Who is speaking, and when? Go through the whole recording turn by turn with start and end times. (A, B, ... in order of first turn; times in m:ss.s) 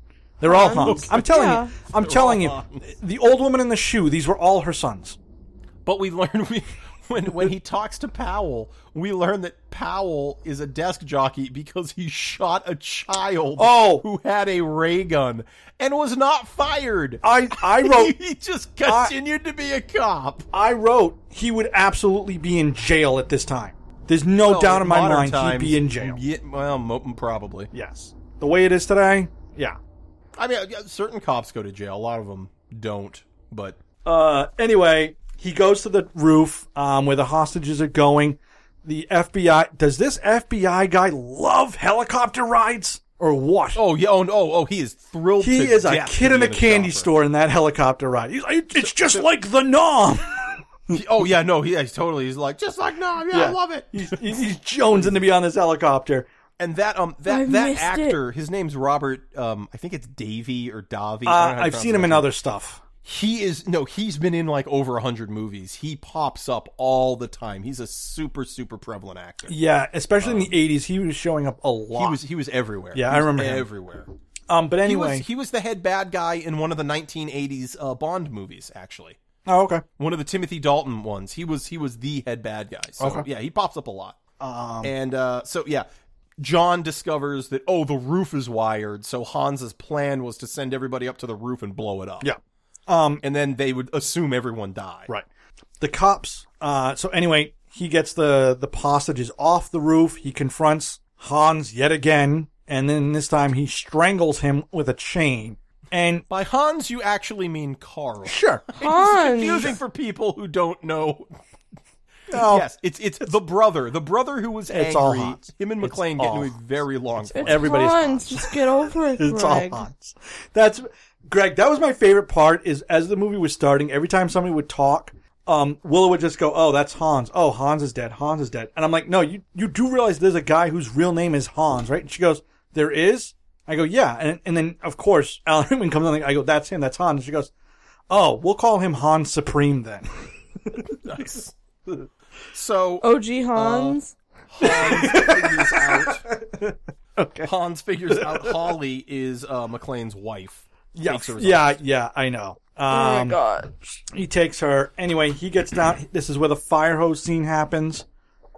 0:00.4-0:05.2 A
0:00.4-0:01.7 B
0:00.6-0:01.3 C
0:01.9-0:02.9 C
0:05.8-0:20.5 C
0:13.6-0:14.0 A
0:17.2-0:18.2 A
0:18.8-0:19.1 A
0:20.5-0:26.2 A
0:24.4-0:27.7 C
0:27.7-0:29.8 A
0:30.4-0:33.8 C
0:34.0-0:43.8 A
0:43.8-0:47.1 C
0:45.4-0:50.9 A
0:48.8-0:49.2 C
0:50.9-0:54.4 C
0:53.3-0:56.3 A
0:56.6-1:02.3 C
0:57.3-0:58.2 B
1:01.3-1:02.8 A
1:03.0-1:09.6 C
1:09.5-1:12.2 A
1:10.2-1:10.5 C
1:12.0-1:14.1 C
1:12.9-1:13.7 A
1:14.5-1:15.3 A
1:14.8-1:19.2 C
1:19.5-1:19.8 A
1:20.0-1:24.2 C
1:23.0-1:23.2 A
1:24.4-1:24.9 A
1:24.8-1:25.9 C
1:26.4-1:32.3 C
1:32.2-1:33.2 A
1:33.2-1:35.1 C
1:35.8-1:46.3 A
1:46.3-1:51.4 C
1:48.3-1:48.7 A
1:48.8-1:49.7 B
1:52.3-1:52.7 A
1:52.3-1:58.0 C
1:54.7-1:56.5 A
1:57.3-1:59.9 B
1:57.4-1:58.6 A
1:59.2-2:17.5 A
2:18.1-2:21.0 A
2:21.0-2:21.5 C
2:22.5-2:24.0 C
2:23.0-2:24.2 B
2:24.5-2:26.2 C
2:24.6-2:27.5 A
2:27.4-2:31.8 C
2:28.1-2:28.6 A
2:30.9-2:33.4 A
2:32.9-2:33.7 B
2:34.1-2:38.1 A